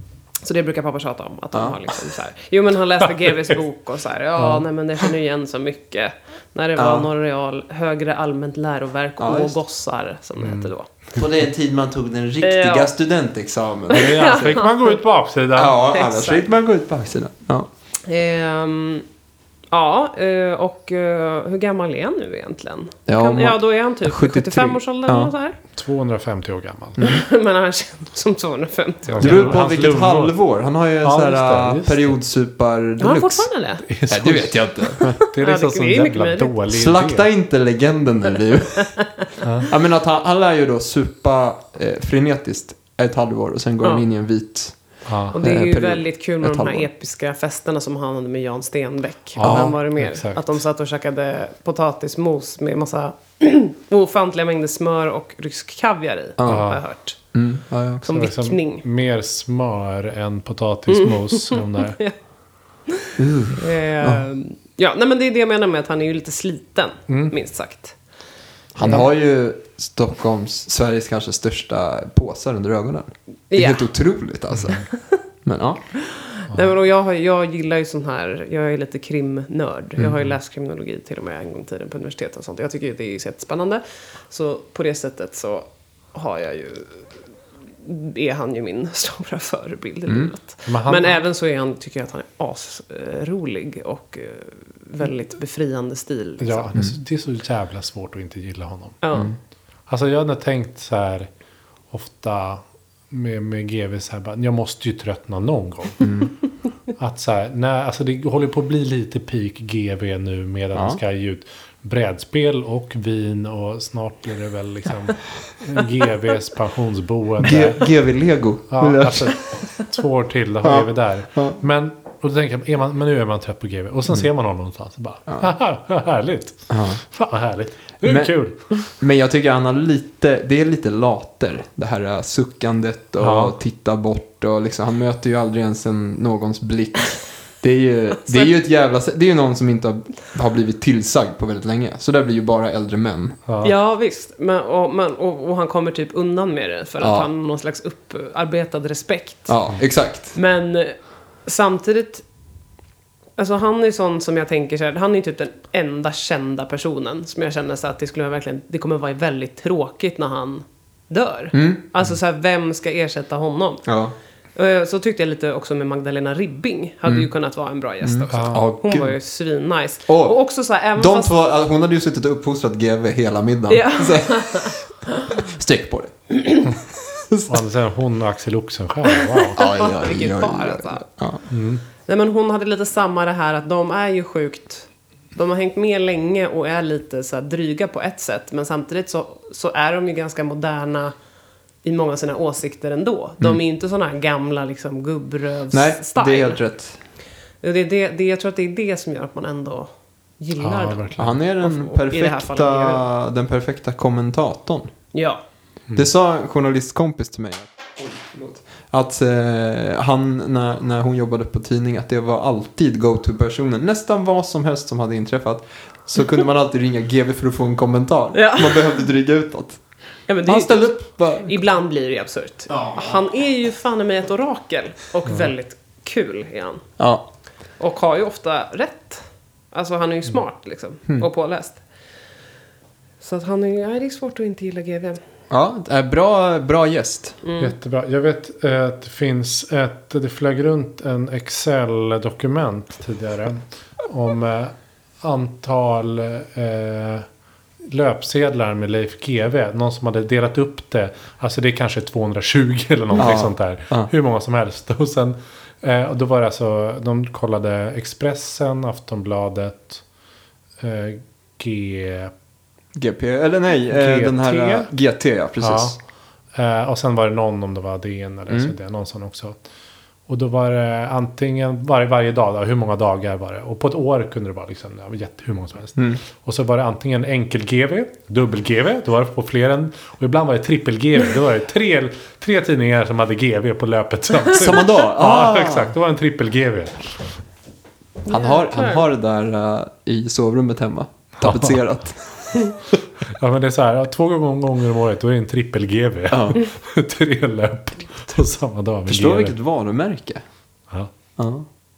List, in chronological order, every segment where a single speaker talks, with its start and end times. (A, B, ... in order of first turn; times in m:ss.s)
0:00.4-0:10.9 A
0:01.5-0:01.8 B
0:04.4-0:04.6 C
0:06.8-0:07.1 B
0:09.2-0:09.6 B
0:10.4-0:10.7 C
0:11.1-0:14.6 B
0:12.4-0:12.9 A
0:13.9-0:15.0 A
0:13.9-0:15.8 C
0:15.5-0:17.7 B
0:15.9-0:16.4 A
0:18.1-0:19.0 A
0:19.7-0:25.6 A
0:23.1-0:25.3 B
0:25.7-0:27.0 C
0:27.0-0:29.6 A
0:29.1-0:30.4 C
0:29.2-0:33.5 B
0:31.0-0:32.2 C
0:33.0-0:33.8 A
0:33.9-0:37.3 C
0:34.1-0:35.1 B
0:35.0-0:36.6 A
0:36.7-0:38.9 B
0:38.8-0:39.2 A
0:39.4-0:39.7 C
0:39.7-0:44.8 B
0:45.0-0:45.4 C
0:45.3-0:57.2 A
0:45.4-0:46.9 B
0:49.4-0:50.5 C
0:49.4-0:49.7 B
0:56.4-0:56.6 B
0:56.4-0:56.8 C
0:57.3-0:58.1 B
0:58.1-0:58.8 A
0:58.1-1:02.0 C
1:00.9-1:02.1 A
1:02.9-1:07.9 A
1:03.2-1:04.2 B
1:07.1-1:07.3 C
1:08.7-1:14.8 B
1:13.5-1:13.9 A
1:15.4-1:15.8 B
1:16.0-1:27.0 A
1:27.8-1:36.7 A
1:30.0-1:30.3 B
1:30.6-1:31.2 C
1:36.4-1:39.0 C
1:39.0-1:39.3 A
1:39.9-1:41.3 C
1:41.9-1:46.1 C
1:46.0-1:46.3 B
1:47.0-1:57.8 C
1:50.7-1:51.0 B
1:57.4-1:59.4 B
1:58.7-2:08.6 C
2:00.6-2:01.6 B
2:06.7-2:07.0 B
2:08.0-2:23.4 B
2:13.2-2:13.6 C
2:23.5-2:23.7 C
2:23.6-2:29.6 A
2:27.0-2:27.3 B
2:29.5-2:30.3 B
2:30.3-2:32.2 A
2:33.4-2:43.8 A
2:41.5-2:41.9 B
2:43.8-2:44.1 B
2:44.6-2:51.3 A
2:48.0-2:49.1 B
2:48.3-2:48.7 C
2:50.1-2:50.4 B
2:50.9-2:54.8 B
2:53.7-2:54.8 A
2:55.3-2:57.6 B
2:57.5-2:59.6 C
2:59.5-3:01.4 B
2:59.6-3:01.0 A
3:01.5-3:01.8 C
3:02.1-3:11.1 A
3:11.8-3:16.6 A
3:15.7-3:17.0 B
3:17.6-3:19.9 A
3:20.4-3:23.0 A
3:20.6-3:21.4 C
3:21.2-3:24.9 B
3:25.1-3:25.4 A
3:25.9-3:39.8 B
3:38.3-3:39.0 A
3:40.3-3:46.8 A
3:40.4-3:41.5 B
3:42.7-3:43.1 B
3:47.0-3:47.2 B
3:47.8-3:51.8 A
3:53.2-3:55.2 A
3:55.5-3:57.4 B
3:57.4-3:57.7 A
3:57.6-4:07.3 C
4:07.8-4:20.0 C
4:13.2-4:14.1 B
4:20.8-4:22.3 C
4:22.9-4:26.0 B
4:23.9-4:24.9 C
4:25.6-4:26.0 C
4:26.5-4:29.6 C
4:30.3-4:47.3 C
4:44.5-4:45.9 B
4:48.2-4:49.0 A
4:48.3-4:52.9 B
4:51.4-4:51.8 C
4:53.3-4:59.6 C
4:56.3-4:56.6 B
4:59.1-5:00.4 B
5:01.4-5:01.7 B